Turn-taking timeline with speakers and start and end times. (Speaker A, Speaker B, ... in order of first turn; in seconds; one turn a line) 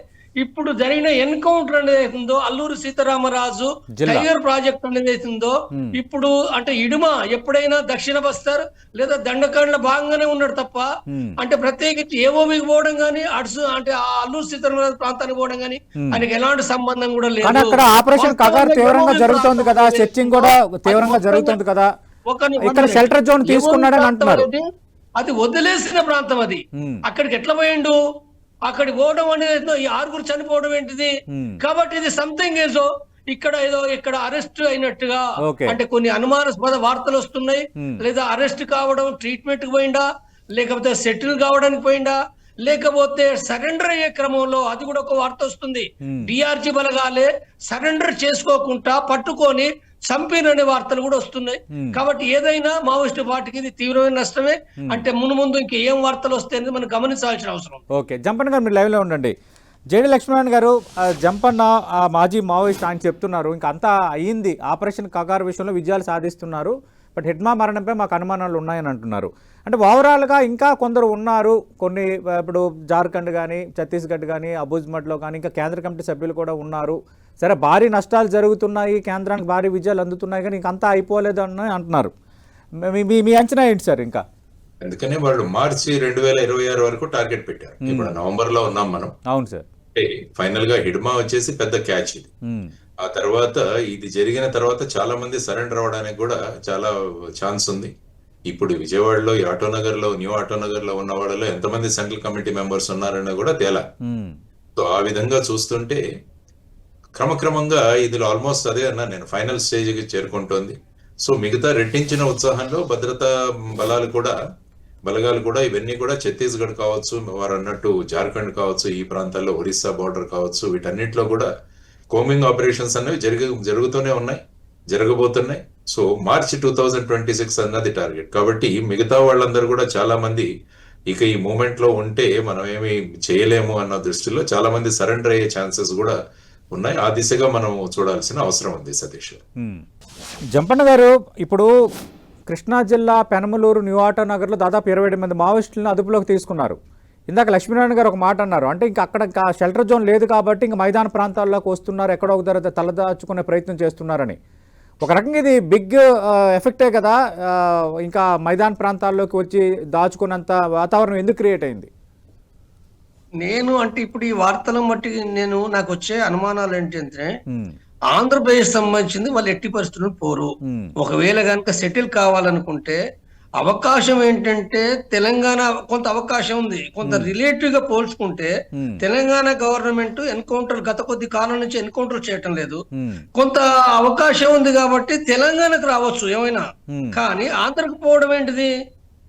Speaker A: 0.4-10.9
Speaker B: 4.0-4.3
Speaker B: 11.1-11.3
Speaker A: 11.4-21.6
Speaker B: 16.0-16.2
Speaker B: 17.4-21.9
Speaker A: 22.3-24.6
Speaker B: 22.6-24.5
Speaker A: 25.2-28.0
Speaker B: 26.8-27.0
Speaker A: 28.6-57.8
Speaker B: 31.3-31.6
Speaker B: 35.4-35.8
Speaker B: 46.0-46.3
Speaker B: 51.7-52.0
Speaker B: 57.9-59.3
Speaker B: 59.9-82.1
Speaker B: 82.8-84.2
Speaker C: 84.8-89.1
Speaker B: 87.8-88.1
Speaker B: 89.3-89.6
Speaker C: 89.9-92.3
Speaker C: 93.0-97.9
Speaker C: 98.5-103.8
Speaker B: 104.0-104.4
Speaker C: 104.8-106.0
Speaker C: 107.2-114.3
Speaker C: 115.0-121.5
Speaker C: 122.1-130.5
Speaker C: 131.1-136.2
Speaker C: 136.7-139.4
Speaker B: 140.5-141.7
Speaker B: 142.5-146.8
Speaker B: 147.3-154.4
Speaker B: 155.0-156.0
Speaker B: 156.6-161.9
Speaker A: 163.4-167.3
Speaker A: 168.1-173.0
Speaker B: 170.7-170.9
Speaker A: 173.6-182.8
Speaker B: 177.0-177.3
Speaker B: 178.8-179.0
Speaker B: 182.9-183.2
Speaker A: 183.3-188.7
Speaker B: 186.9-187.2